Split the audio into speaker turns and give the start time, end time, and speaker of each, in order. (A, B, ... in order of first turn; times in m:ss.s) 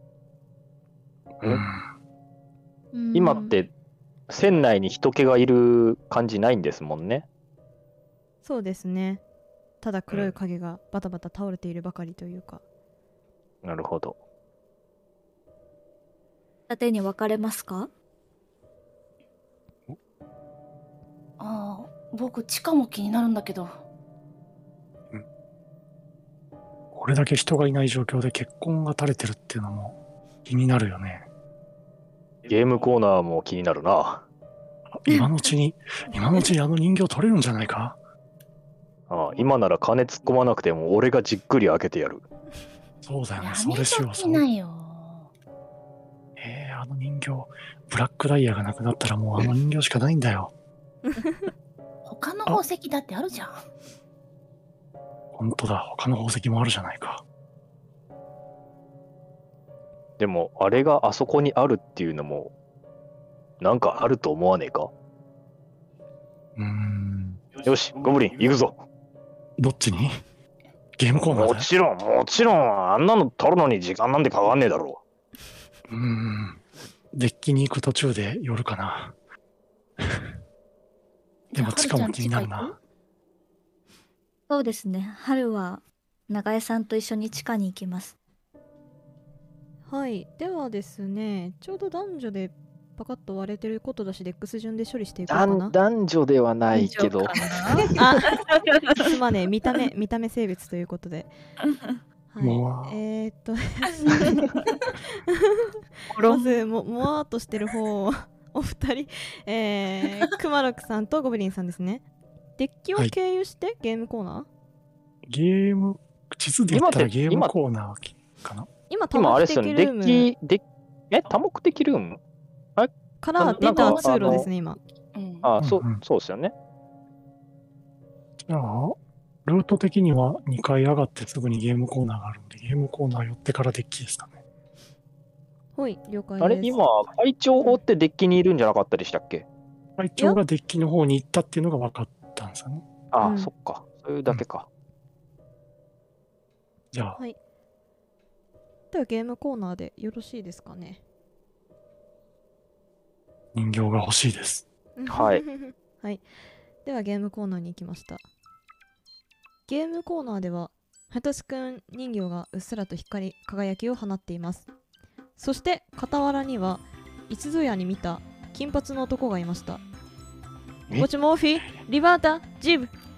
0:01.4-0:01.9 A
0:02.9-0:03.6 B
0:03.1-0:03.7 C
0:04.3-0:07.2 C
0:08.4-0:09.2 D
0:09.8-0:12.6 D
0:13.6-0:14.2 C
0:16.7-0:17.9 B
0:21.4-0:23.8 E
0:26.9-0:31.3 A
0:32.4-0:34.2 C
0:34.9-0:38.0 A
0:39.1-0:42.2 C
0:43.0-0:44.4 A
0:43.4-0:45.3 E
0:46.4-0:50.5 A
0:52.0-0:53.6 E
0:55.3-0:57.2 A
1:00.2-1:02.5 C
1:03.6-1:04.9 C
1:06.6-1:07.4 A
1:07.6-1:08.8 C
1:09.6-1:10.2 A
1:11.0-1:11.7 A
1:11.3-1:15.0 C
1:15.9-1:19.1 A
1:20.0-1:20.3 A
1:21.5-1:22.8 E
1:21.5-1:22.7 A
1:24.5-1:28.2 B
1:29.9-1:35.7 D
1:35.3-1:37.5 C
1:36.7-1:39.1 B
1:37.9-1:41.3 D
1:42.3-1:44.5 D
1:42.4-1:43.0 A
1:45.3-1:45.7 D
1:46.2-1:46.5 B
1:46.2-1:52.0 D
1:52.6-1:54.5 D
1:55.3-1:58.7 A
1:56.7-1:57.5 C
1:58.9-2:00.3 D
1:59.1-2:02.2 C
2:02.8-2:04.5 C
2:03.2-2:04.8 D
2:03.6-2:04.5 E
2:05.1-2:05.5 E
2:05.4-2:06.5 C
2:05.6-2:06.0 A
2:08.4-2:14.4 A
2:15.8-2:16.8 D
2:16.4-2:19.4 C
2:20.0-2:22.8 A
2:23.1-2:24.6 C
2:23.2-2:23.5 D
2:26.9-2:27.2 A
2:28.9-2:31.0 D
2:33.5-2:34.6 A
2:35.0-2:36.2 D
2:35.1-2:35.4 C
2:36.8-2:38.2 D
2:39.7-2:44.7 D
2:45.4-2:49.8 D
2:50.9-2:52.9 D